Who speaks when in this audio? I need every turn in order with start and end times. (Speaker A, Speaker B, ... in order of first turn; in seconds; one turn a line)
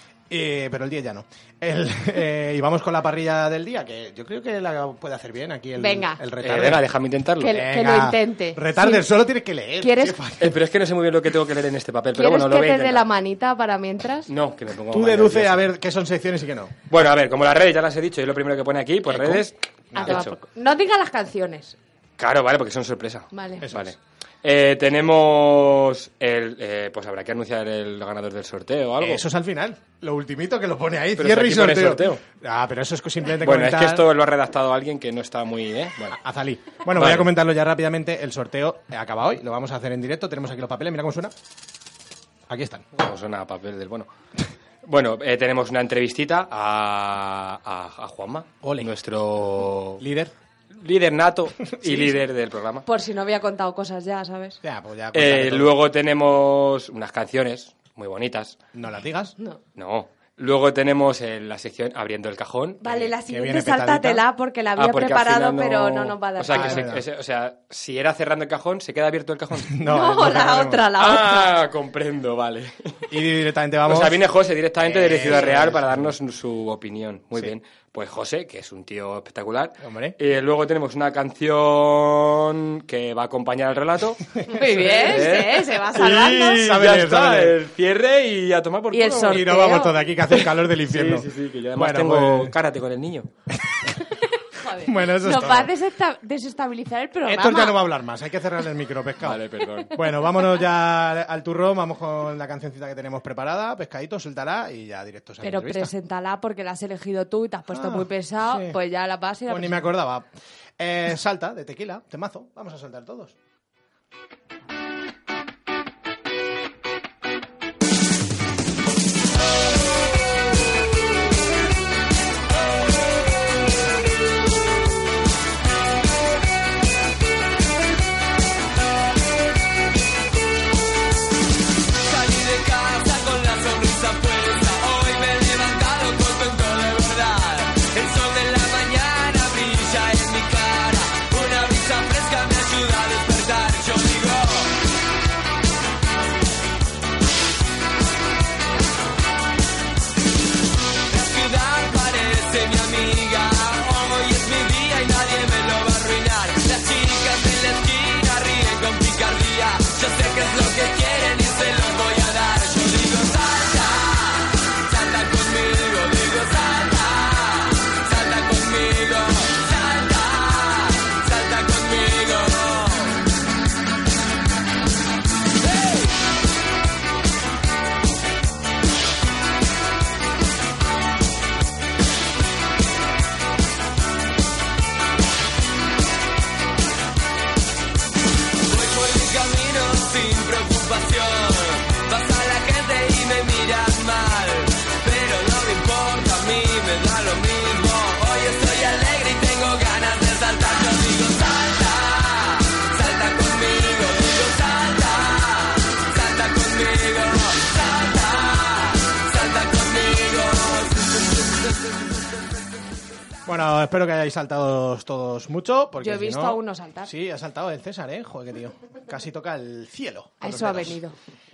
Speaker A: 0.3-6.8
Speaker B: 5.8-6.2
Speaker C: 6.4-7.5
Speaker B: 7.4-9.0
Speaker A: 7.5-10.6
Speaker B: 9.8-10.2
Speaker C: 10.4-13.0
Speaker B: 12.1-14.3
Speaker C: 14.3-15.7
Speaker A: 14.9-16.8
Speaker C: 16.9-20.4
Speaker A: 19.1-20.3
Speaker B: 19.9-21.7
Speaker C: 22.2-29.2
Speaker B: 23.3-23.6
Speaker A: 23.6-23.9
Speaker A: 29.0-34.0
Speaker C: 31.2-32.2
Speaker C: 33.4-36.2
Speaker A: 36.1-41.3
Speaker C: 36.9-37.3
Speaker A: 42.5-42.9
Speaker C: 42.9-44.1
Speaker C: 44.8-50.0
Speaker A: 48.6-48.9
Speaker A: 50.0-50.3
Speaker C: 50.8-52.8
Speaker A: 51.7-52.2
Speaker B: 52.9-54.6
Speaker A: 54.6-55.7
Speaker C: 55.1-58.6
Speaker A: 58.7-59.4
Speaker C: 59.8-63.1
Speaker B: 62.8-66.9
Speaker A: 63.3-64.2
Speaker C: 64.8-69.7
Speaker A: 66.5-67.0
Speaker A: 69.7-70.8
Speaker B: 69.8-71.5
Speaker C: 71.0-73.1
Speaker A: 73.1-74.2
Speaker C: 73.9-84.2
Speaker A: 74.8-76.1
Speaker A: 79.8-80.2
Speaker A: 84.4-85.3
Speaker B: 84.5-86.6
Speaker C: 84.9-89.5
Speaker A: 86.4-87.6
Speaker B: 88.9-90.0
Speaker A: 89.3-92.5
Speaker C: 90.9-93.3
Speaker B: 94.1-97.8
Speaker A: 94.7-95.7
Speaker A: 97.2-105.9
Speaker C: 99.2-100.0
Speaker B: 105.4-109.8
Speaker A: 107.7-108.8
Speaker A: 109.5-113.3
Speaker D: 132.0-144.7
Speaker D: 151.1-173.1
Speaker D: 188.7-210.9
Speaker A: 213.4-221.0
Speaker B: 216.0-217.1
Speaker B: 220.4-221.1